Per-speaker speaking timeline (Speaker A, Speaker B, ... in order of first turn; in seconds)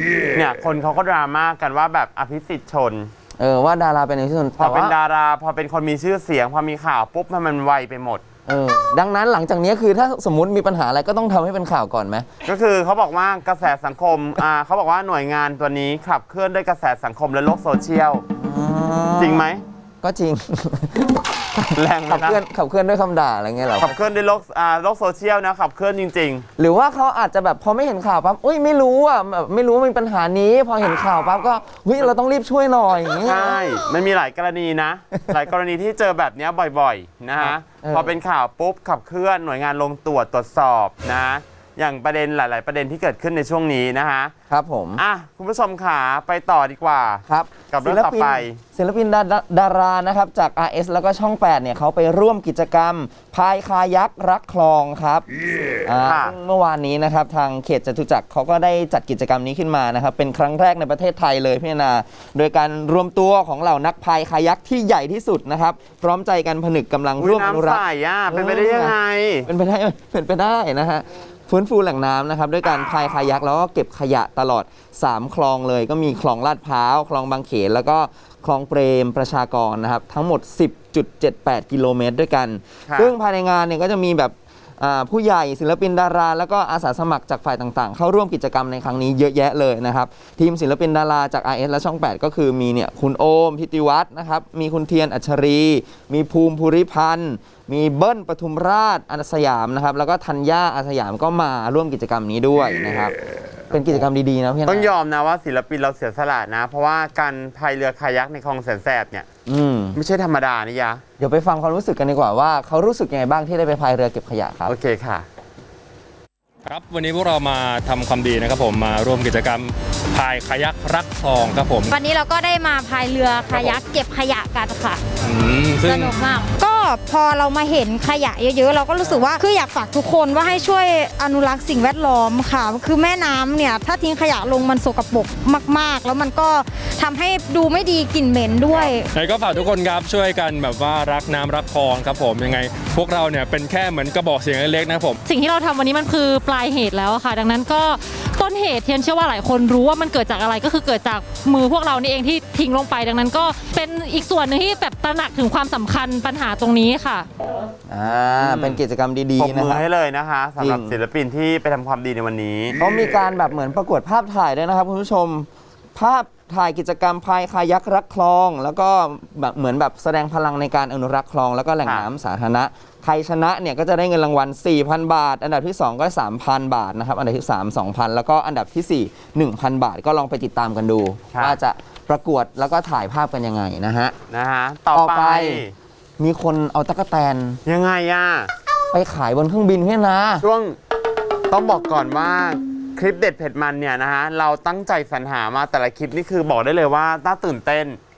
Speaker A: 0.3-3.1, 4.6-8.2, 12.5-18.2, 19.2-19.6, 21.8-22.4, 23.8-26.5, 33.2-44.3, 45.0-48.6, 56.0-56.4, 67.2-69.5, 82.9-83.1, 104.7-109.3, 110.0-111.0, 114.7-115.3, 123.5-123.8, 138.7-138.9, 158.3-158.8, 159.4-162.8, 181.3-181.6, 184.3-185.7, 187.7-188.5, 190.4-190.8, 191.5-198.0
Speaker B: 3.4-5.0, 8.5-12.3, 18.4-19.4, 20.0-24.0, 26.6-33.6, 37.4-38.2, 44.5-45.0, 47.3-55.3, 55.8-69.0, 69.5-103.2, 103.7-104.9, 109.5-110.0, 111.2-114.8, 157.9-159.8, 160.6-161.0, 162.8-184.2, 184.9-185.6, 186.2-187.6, 188.9-190.5
Speaker C: 116.7-122.0, 125.2-126.2, 129.0-129.3, 139.1-145.2
Speaker D: 121.9-125.0, 125.9-139.1
Speaker E: 145.2-157.3